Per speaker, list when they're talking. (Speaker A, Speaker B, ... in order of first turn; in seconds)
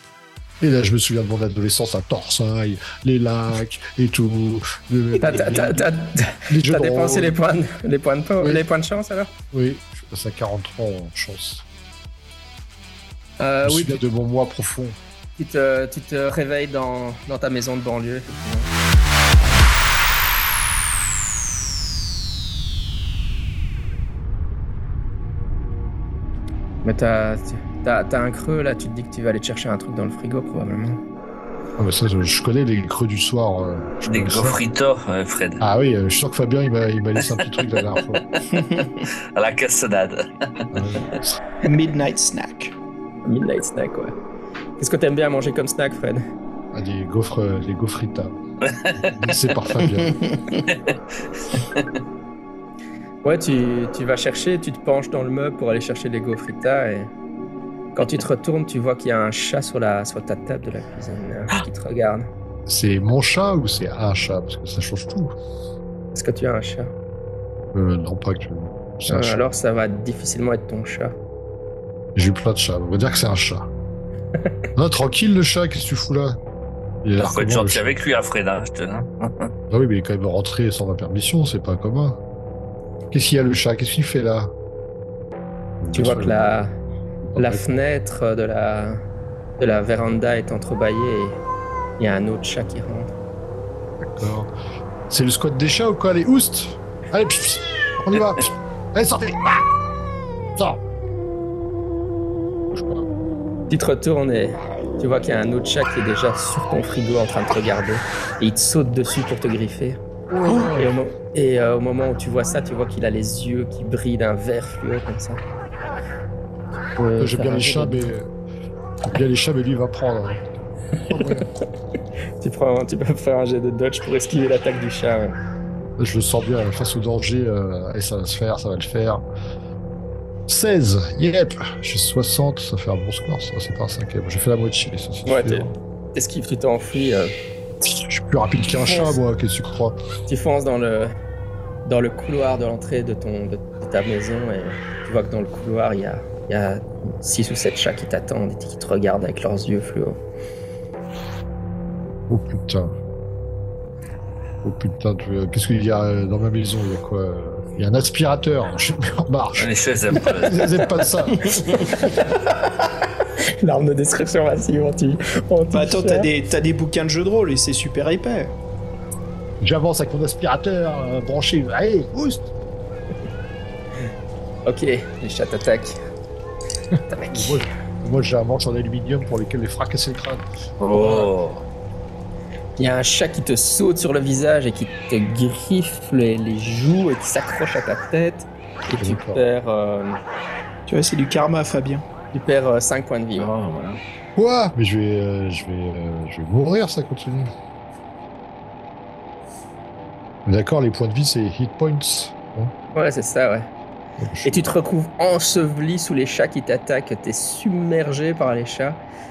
Speaker A: 0.6-5.9, 6.5-7.3, 9.5-11.7, 13.6-15.0, 31.8-34.6, 35.6-38.2, 40.7-41.4, 46.7-48.4, 49.0-50.2, 62.7-65.3, 67.7-69.4, 72.2-73.7, 74.8-76.4, 77.0-77.8, 79.7-82.2, 83.1-84.5, 85.8-86.4, 87.3-87.7, 94.0-94.5, 95.1-99.7, 100.6-100.8, 102.7-103.1, 110.3-111.0, 117.0-118.3, 119.1-120.5, 121.1-121.5, 126.0-129.2, 130.5-135.7, 137.8-140.0, 152.3-152.9, 154.6-162.1, 169.6-172.5, 177.3-180.4, 188.9-189.4, 194.4-197.5, 200.5-202.7, 204.2-204.6
Speaker B: 5.2-9.3, 13.4-14.0, 15.4-18.7, 26.8-31.0, 43.2-44.1, 44.8-46.3, 53.2-57.1, 58.0-62.3, 66.1-66.9, 69.1-71.2, 85.9-86.7, 87.4-89.0, 89.6-91.4, 92.0-93.1, 103.7-110.0, 110.5-115.4, 117.0-118.1, 122.4-125.4, 135.3-137.3, 138.8-139.2, 140.3-141.1, 141.8-150.2, 161.4-163.1, 163.6-166.3, 174.7-176.0, 177.1-177.6, 182.8-190.2, 192.3-193.5, 202.9-203.7, 204.4-209.0
Speaker C: 34.1-35.6, 37.4-38.2, 38.8-40.7, 48.6-49.8, 50.7-51.9, 77.2-79.5, 159.6-160.8, 180.8-181.6, 193.4-194.0
Speaker D: 38.5-39.1, 41.6-42.8, 50.0-50.6, 165.7-168.5, 190.9-192.1